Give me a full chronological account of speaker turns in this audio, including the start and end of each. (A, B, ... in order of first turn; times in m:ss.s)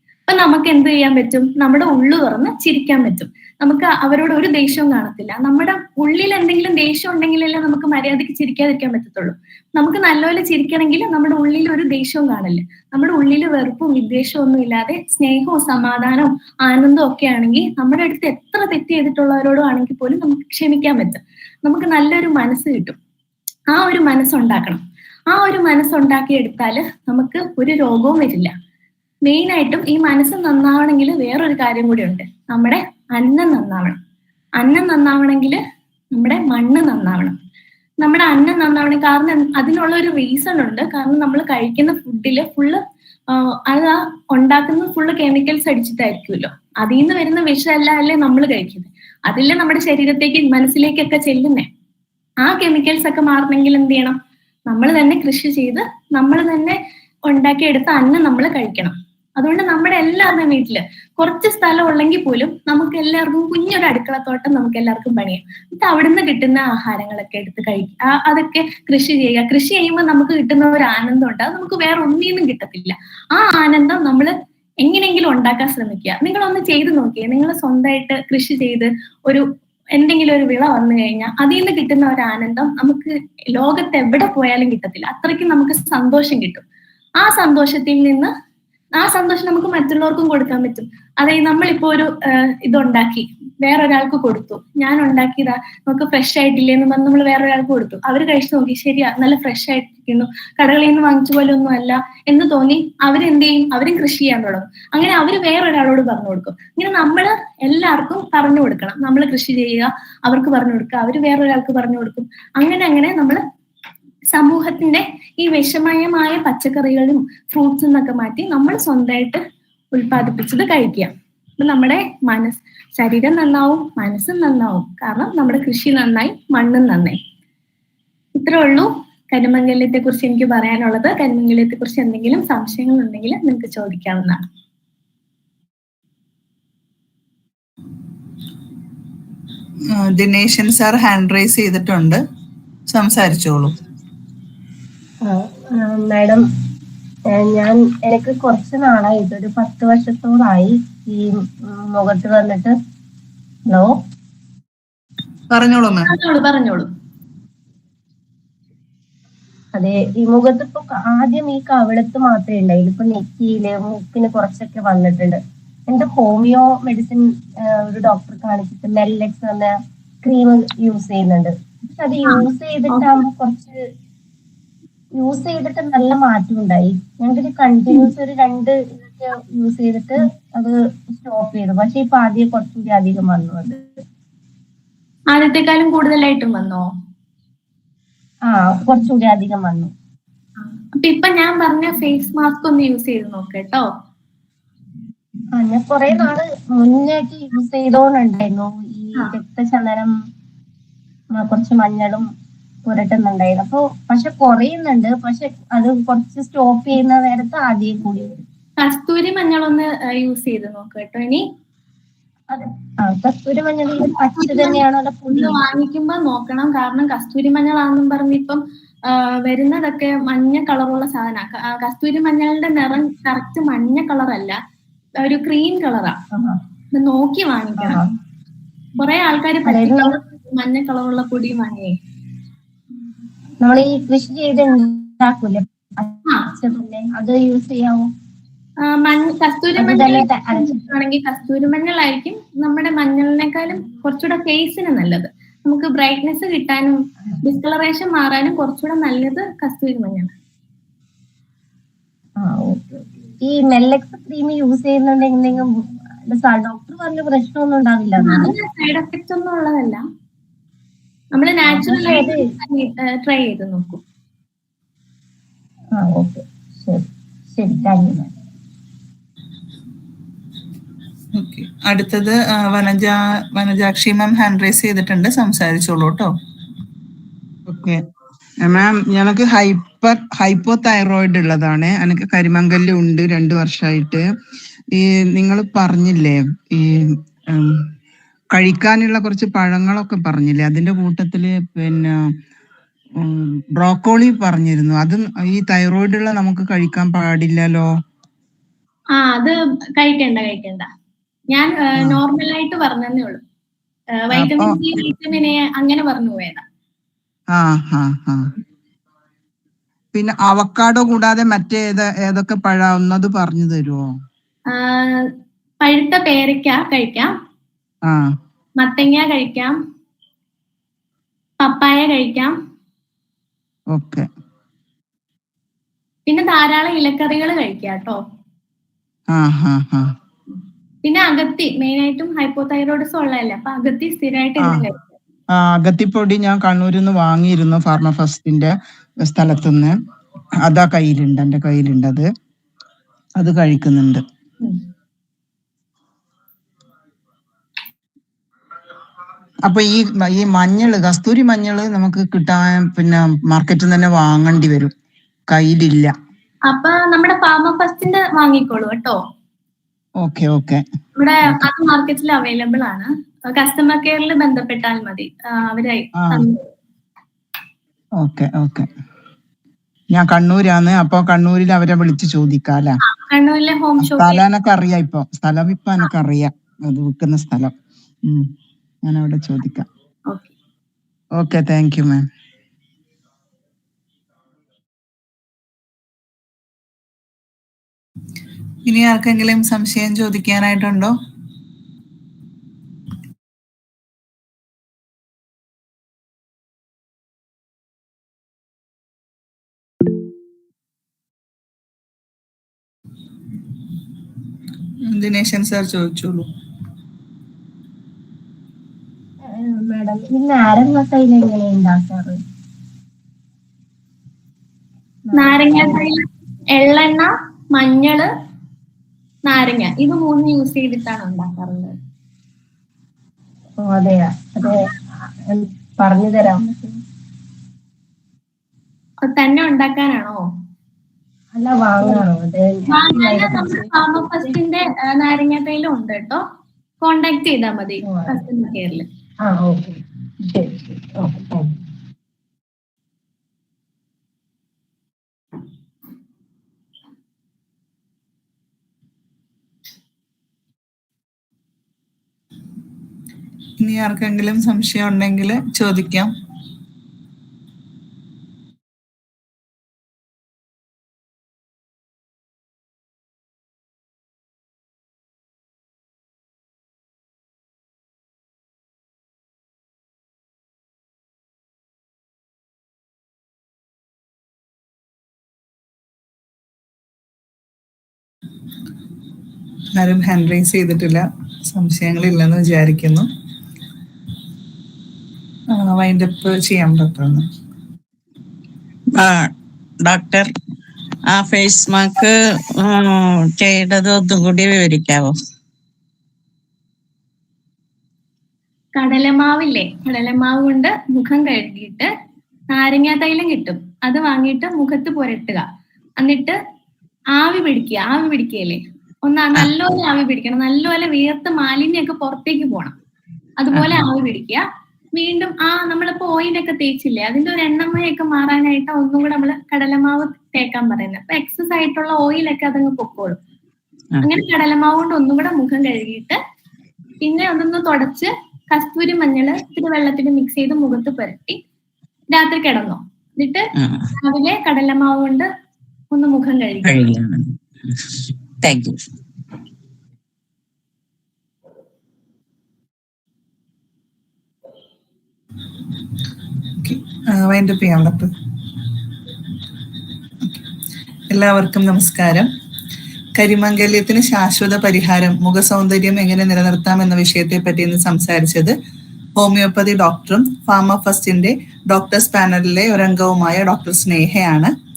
0:00.3-0:23.0 A
0:23.7-0:28.5 A
0:29.2-0:34.0 A
0:34.6-0:35.6 A
0:36.1-0:37.4 A
0:38.0-0:51.7 A
0:52.4-0:56.8 A
0:57.3-1:26.6 A
1:27.2-1:28.3 A
1:29.0-1:53.4 A
1:54.3-2:07.2 A
2:08.4-2:14.4 A
2:19.9-2:22.2 B
2:22.9-2:23.7 B
2:25.2-2:26.4 C
2:27.3-2:32.8 C
2:33.7-2:34.0 C
2:35.5-2:36.1 B
2:36.1-2:36.9 A
2:39.8-2:53.8 C
2:52.3-2:53.2 A
2:55.2-3:03.9 C
3:05.3-3:06.9 A
3:08.5-3:09.9 C
3:11.0-3:13.9 A
3:15.5-3:20.1 C
3:21.4-3:22.3 C
3:22.9-3:28.4 C
3:28.8-3:31.4 A
3:32.5-3:35.6 C
3:34.4-3:34.8 A
3:35.3-3:44.6 A
3:45.2-3:46.2 A
3:46.3-3:46.6 C
3:47.0-3:48.0 A
3:47.8-3:48.1 C
3:49.0-3:52.0 A
3:49.6-3:50.2 C
3:53.6-3:58.1 C
3:58.8-4:10.3 A
3:59.8-4:00.8 C
4:12.4-4:18.5 C
4:18.2-4:20.0 A
4:21.3-4:24.0 A
4:21.6-4:22.4 C
4:26.0-4:28.3 C
4:31.4-4:36.3 B
4:37.7-4:38.0 D
4:38.6-4:44.2 D
4:44.9-4:47.8 D
4:48.6-4:52.3 D
4:53.2-4:57.9 D
4:59.2-5:00.9 A
5:01.5-5:03.4 A
5:04.1-5:06.6 A
5:04.3-5:04.8 D
5:07.5-5:08.4 D
5:10.1-5:14.1 D
5:14.7-5:15.3 A
5:15.8-5:17.3 A
5:18.1-5:18.4 D
5:18.8-5:19.8 A
5:21.6-5:22.6 A
5:23.9-5:24.3 D
5:26.3-5:28.2 A
5:29.3-5:30.1 D
5:31.0-5:35.1 A
5:34.6-5:34.9 D
5:35.5-5:39.9 D
5:40.6-5:42.3 D
5:43.4-5:44.2 D
5:49.7-5:54.9 D
5:55.5-5:56.1 D
5:56.7-5:59.2 A
6:00.2-6:00.8 D
6:01.2-6:06.6 A
6:06.2-6:06.5 D
6:08.2-6:08.9 D
6:10.1-6:13.0 D
6:13.1-6:14.4 A
6:14.0-6:17.7 D
6:19.0-6:19.9 D
6:21.4-6:22.3 D
6:28.9-6:31.1 B
6:45.1-6:46.5 B
6:49.4-6:52.4 C
6:55.2-6:56.0 C
6:55.3-6:58.3 A
6:59.5-7:02.0 A
7:03.8-7:07.0 C
7:09.2-7:10.4 A
7:11.5-7:13.9 C
7:12.9-7:16.4 A
7:17.0-7:19.1 A
7:18.1-7:18.4 C
7:19.4-7:21.7 C
7:33.8-7:36.3 B
8:00.0-8:03.3 B
8:05.7-8:07.5 B
8:09.2-8:09.5 E
8:10.0-8:10.5 E
8:11.3-8:15.3 E
8:19.0-8:22.1 A
8:22.7-8:25.7 A
8:26.2-8:26.6 A
8:27.4-8:33.0 A
8:33.6-8:34.6 A
8:33.7-8:34.1 E
8:35.2-8:43.4 A
8:44.2-8:46.4 A
8:47.2-8:51.6 A
8:52.3-8:55.5 A
8:53.8-8:54.1 E
8:56.1-8:57.0 A
8:56.8-8:58.1 E
8:58.6-8:59.0 E
9:06.8-9:08.3 B
9:11.3-9:12.5 B
9:13.4-9:18.8 B
9:19.4-9:24.7 B